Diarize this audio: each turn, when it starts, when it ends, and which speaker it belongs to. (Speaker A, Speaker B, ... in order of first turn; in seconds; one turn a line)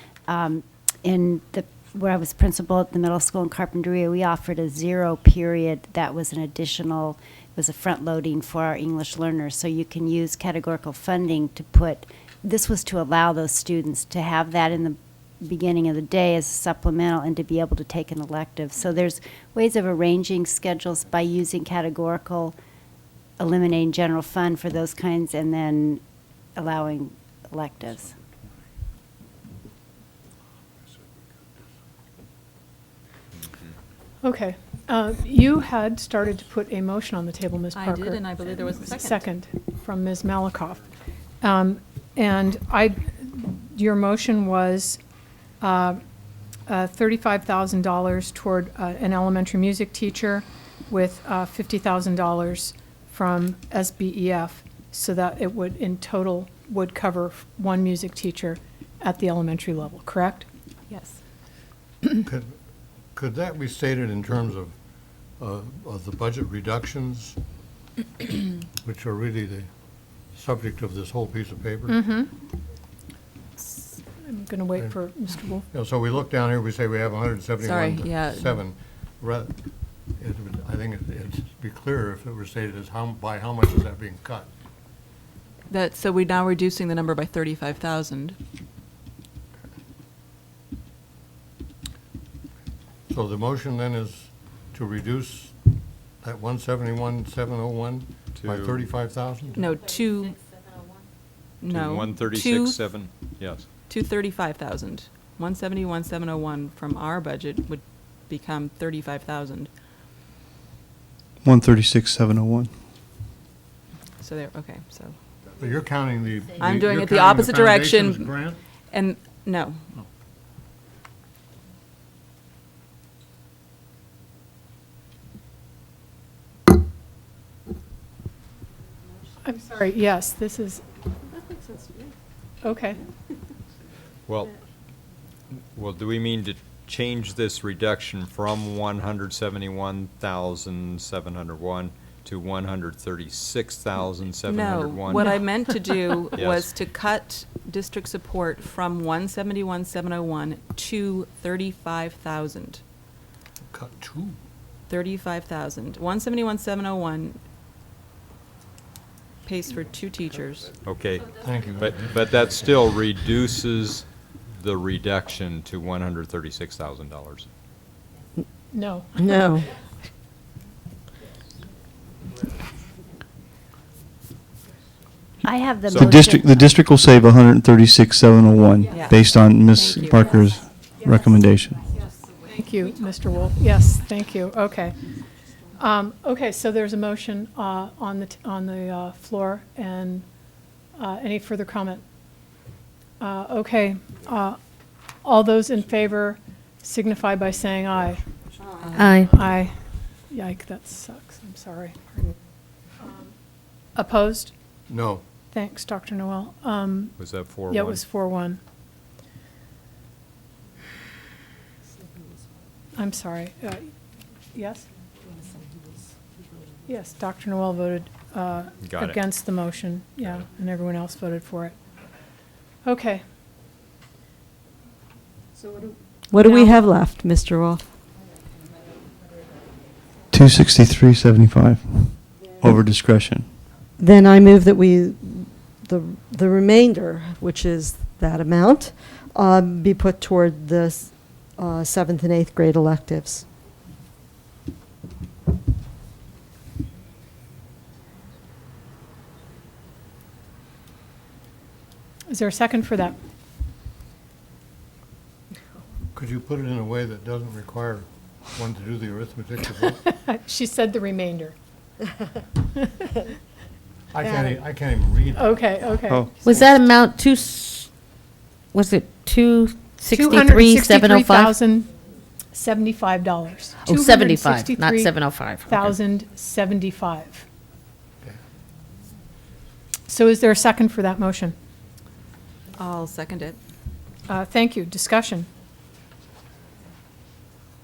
Speaker A: 0.3-22.6
Speaker A: 23.4-26.0
Speaker A: 26.6-28.1
Speaker B: 34.2-40.9
Speaker C: 37.7-39.3
Speaker B: 41.4-45.0
Speaker B: 45.6-46.0
Speaker B: 46.7-60.5
Speaker D: 62.2-62.5
Speaker D: 63.1-64.7
Speaker D: 65.4-67.4
Speaker D: 68.8-69.7
Speaker D: 70.3-72.0
Speaker B: 71.9-72.3
Speaker B: 73.6-75.6
Speaker D: 75.7-79.5
Speaker C: 77.6-78.6
Speaker D: 80.2-84.5
Speaker C: 85.7-88.4
Speaker D: 93.1-95.5
Speaker D: 96.2-99.6
Speaker E: 98.3-98.9
Speaker C: 99.5-100.4
Speaker C: 101.6-102.8
Speaker E: 101.7-103.7
Speaker C: 103.9-109.7
Speaker F: 111.4-112.7
Speaker C: 114.2-115.1
Speaker D: 115.6-118.6
Speaker C: 116.6-118.3
Speaker C: 118.9-119.8
Speaker B: 129.4-130.8
Speaker B: 132.6-133.0
Speaker E: 134.3-134.5
Speaker E: 135.7-145.5
Speaker C: 144.4-152.8
Speaker E: 146.3-146.7
Speaker D: 153.7-154.3
Speaker C: 154.9-157.4
Speaker C: 159.4-160.7
Speaker E: 160.8-167.5
Speaker D: 161.3-162.1
Speaker B: 168.7-169.3
Speaker G: 169.2-169.7
Speaker A: 175.4-176.8
Speaker F: 175.9-181.9
Speaker C: 178.9-180.4
Speaker B: 182.5-184.9
Speaker B: 185.8-190.2
Speaker B: 191.0-192.0
Speaker B: 193.2-194.6
Speaker B: 195.2-198.2
Speaker C: 198.8-199.2
Speaker H: 198.9-199.3
Speaker B: 199.2-199.7
Speaker B: 200.3-202.3
Speaker B: 203.9-204.5
Speaker D: 204.9-205.2
Speaker B: 205.5-207.1
Speaker E: 207.2-208.1
Speaker B: 207.7-208.6
Speaker B: 212.9-213.9
Speaker B: 214.5-214.9
Speaker B: 216.8-221.8
Speaker E: 218.8-219.3
Speaker B: 222.8-223.2
Speaker G: 226.3-227.9
Speaker F: 230.3-233.5
Speaker G: 234.0-243.4
Speaker B: 252.3-253.2
Speaker D: 256.1-260.0
Speaker B: 260.0-261.5
Speaker D: 264.1-265.6
Speaker B: 265.3-266.3
Speaker F: 266.1-266.7
Speaker H: 266.4-267.9
Speaker H: 268.7-271.6
Speaker B: 270.1-271.9
Speaker B: 272.5-275.1
Speaker H: 273.8-276.0
Speaker B: 275.6-277.4
Speaker B: 280.1-281.5
Speaker C: 282.8-283.6
Speaker B: 284.3-285.5